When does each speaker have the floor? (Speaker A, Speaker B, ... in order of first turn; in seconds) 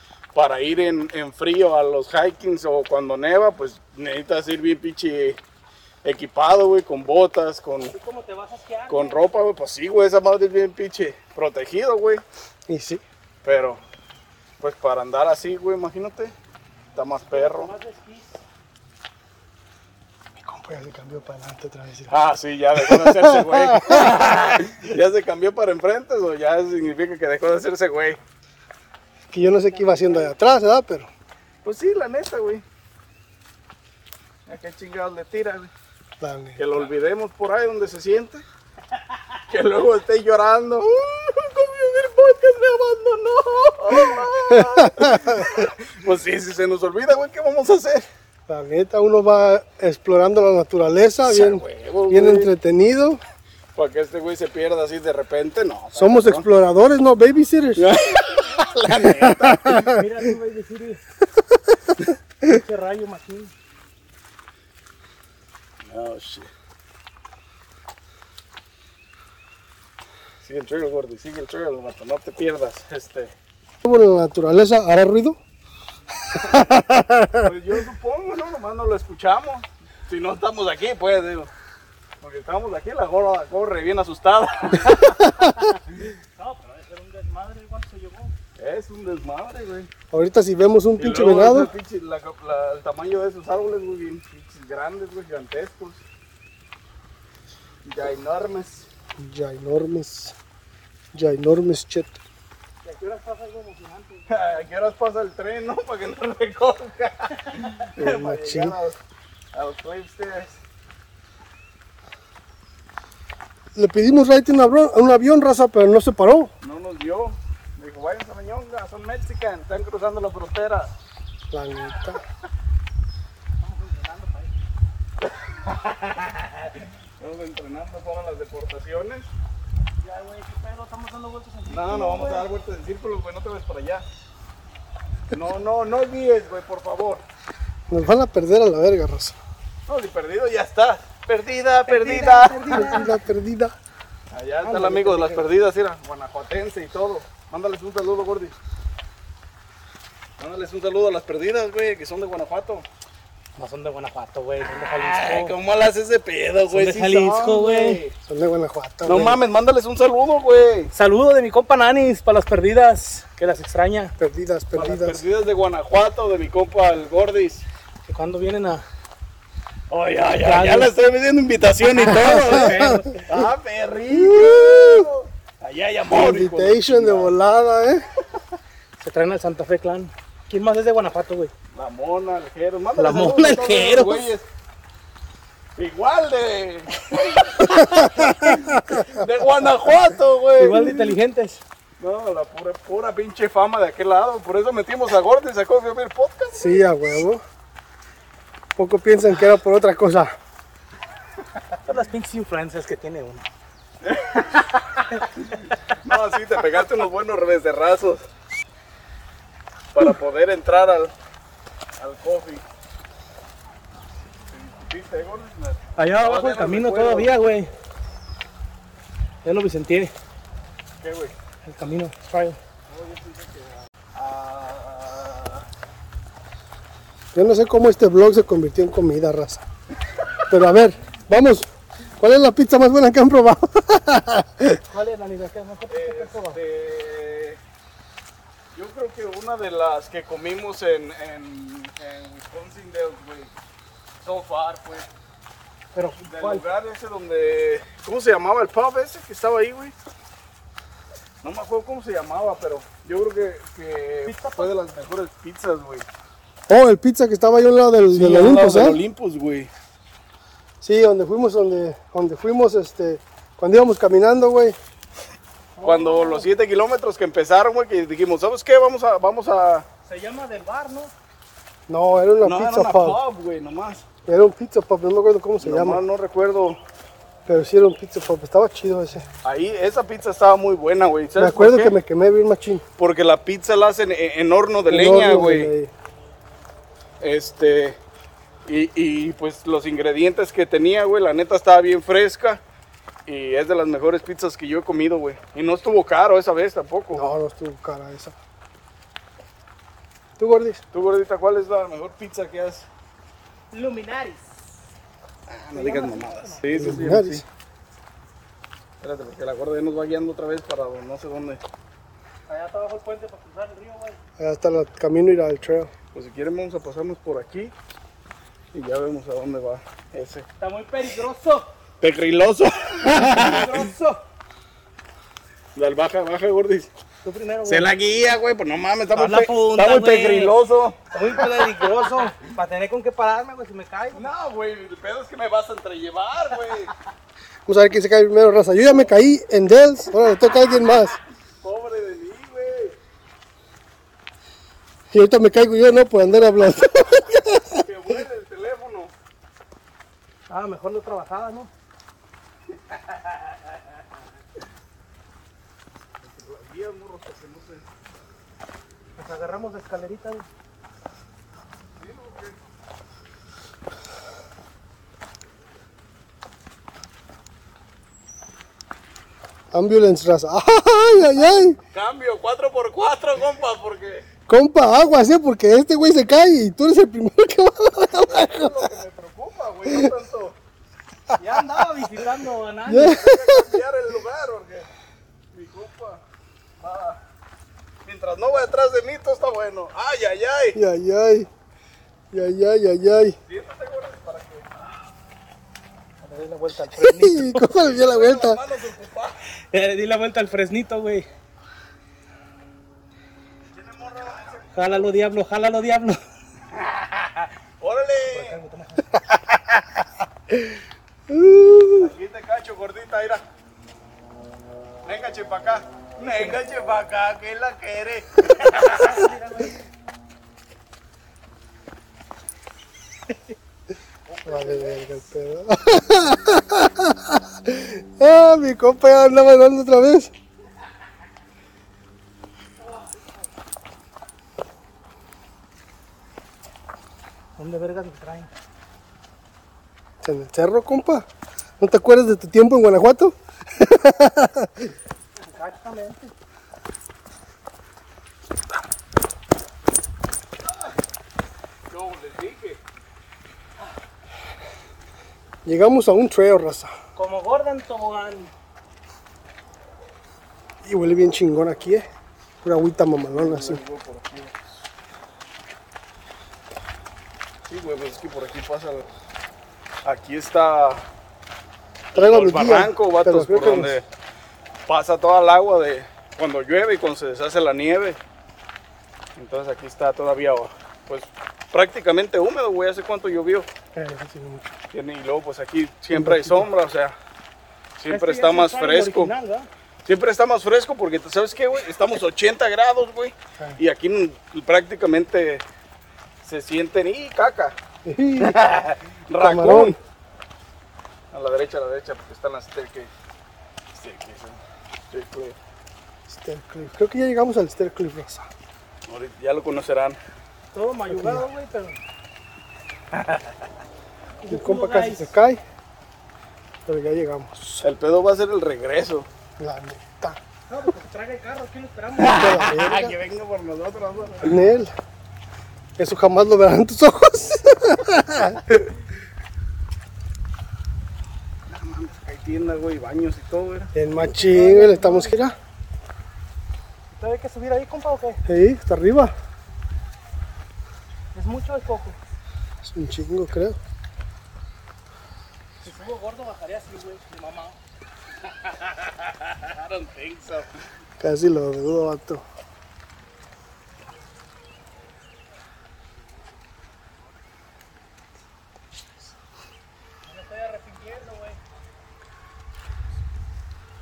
Speaker A: 0.3-5.4, 6.0-7.9, 8.9-12.2, 13.4-13.8, 14.6-16.3, 16.9-17.7, 22.1-28.2, 31.6-32.6, 34.5-35.7, 36.6-38.4, 39.5-48.1, 51.2-52.5, 53.8-56.5, 57.8-59.8, 65.8-66.5, 70.4-73.3, 77.4-81.5, 82.2-85.5, 88.6-89.9, 91.0-96.0, 97.8-98.9, 104.3-109.0, 109.5-110.6, 116.6-120.9, 125.4-129.3, 131.7-134.0, 135.3-137.2, 139.9-143.0, 144.3-148.5, 150.4-152.8, 154.8-158.1, 159.0-160.9, 164.7-167.6, 169.9-177.3, 181.7-184.4, 185.8-190.9, 192.0-196.8, 204.0-204.7, 205.3-208.2, 209.9-211.1, 212.0-212.6, 214.3-217.3, 221.0-221.3, 222.9-225.7, 235.9-237.6, 238.7-243.5, 244.2-245.1, 246.2-249.9, 251.4-256.1, 258.1-259.7, 265.8-269.9, 272.4-274.0, 275.6-276.8, 279.4-281.9, 283.0-285.7, 287.2-288.0, 288.6-292.6, 293.2-297.3, 300.9-302.9, 305.5-307.4, 309.0-311.6, 316.1-317.7, 318.7-320.4, 322.0-323.9, 325.8-326.9, 327.6-331.8, 334.1-336.9, 341.6-343.0, 347.7-349.1, 352.7-353.8, 356.2-357.9, 362.0-362.7, 371.9-374.2, 378.2-380.6, 383.0-384.9, 385.5-386.2, 386.8-387.2, 388.0-390.8, 393.4-394.9, 397.8-399.4, 403.7-405.1, 406.7-408.6, 411.9-413.4, 415.0-419.3, 424.3-425.0, 451.9-452.8, 463.3-464.7, 467.7-469.1, 470.0-471.0, 472.1-474.1, 474.9-478.2, 479.4-483.7, 484.9-487.2, 488.0-489.3, 490.0-495.6, 496.4-497.8, 498.4-499.9, 501.3-503.1, 503.9-504.6, 505.1-505.6, 509.1-510.2, 513.1-513.6, 517.8-519.3, 522.2-524.6, 531.7-533.9, 548.4-550.8
Speaker B: 7.9-9.3, 17.2-18.4, 29.4-30.3, 59.9-61.0, 62.4-63.5, 86.2-88.3, 102.8-104.6, 123.6-124.5, 130.0-132.5, 141.8-143.1, 144.6-145.4, 153.6-155.5, 156.7-158.0, 160.9-164.1, 168.1-168.8, 170.4-170.9, 172.0-173.2, 179.0-181.5, 183.0-184.3, 190.6-191.6, 201.8-203.4, 216.0-217.7, 219.4-220.1, 221.6-222.6, 234.9-236.6, 245.9-246.6, 254.2-254.7, 265.8-266.5, 270.0-271.1, 303.7-304.7, 305.7-306.7, 312.5-314.2, 320.6-321.7, 323.2-324.2, 327.2-327.9, 329.1-330.6, 331.1-334.3, 350.5-351.7, 359.2-360.4, 381.4-383.2, 396.2-397.7, 399.7-401.3, 404.7-406.2, 408.3-409.2, 416.2-416.6, 418.7-419.8, 432.9-433.3, 437.6-438.5, 445.5-446.3, 457.1-458.5, 488.1-489.7, 510.7-512.0, 514.4-515.3, 520.7-522.6, 534.2-535.5, 537.1-538.4, 541.3-542.2, 545.8-547.8, 560.2-561.6
Speaker C: 12.7-13.0, 20.4-22.1, 22.8-24.3, 29.3-31.1, 36.2-36.6, 44.5-45.5, 48.5-53.2, 55.9-57.8, 58.9-60.1, 73.8-75.4, 76.3-77.5, 90.1-91.7, 99.2-100.3, 101.1-102.2, 108.0-108.8, 113.7-116.5, 121.5-122.2, 137.9-139.4, 142.7-143.7, 158.3-159.4, 164.2-165.2, 172.1-173.1, 174.1-175.1, 176.1-178.1, 187.8-189.0, 190.6-191.2, 196.5-197.4, 198.8-200.3, 227.3-229.6, 230.5-234.8, 256.7-259.0, 260.8-264.8, 271.9-273.2, 274.2-276.0, 277.4-279.2, 281.4-282.8, 284.9-285.9, 297.1-298.3, 300.4-300.8, 306.7-307.4, 314.4-315.9, 337.7-341.2, 345.1-347.8, 369.7-371.8, 374.5-378.9, 381.3-382.3, 382.9-383.8, 390.7-391.5, 392.3-393.4, 396.9-398.6, 410.5-410.8, 411.3-412.1, 424.4-430.3, 440.2-441.3, 441.8-444.9, 455.6-456.9, 460.8-462.1, 462.6-463.8, 472.1-474.0, 483.9-484.8, 486.1-486.7, 498.0-498.6, 499.4-500.0, 506.3-508.5, 511.1-511.4, 514.5-515.6, 516.9-517.8, 519.6-520.4, 522.2-523.1, 524.4-524.9, 526.0-528.9, 533.9-535.5, 538.5-539.3, 542.8-543.8, 551.2-552.4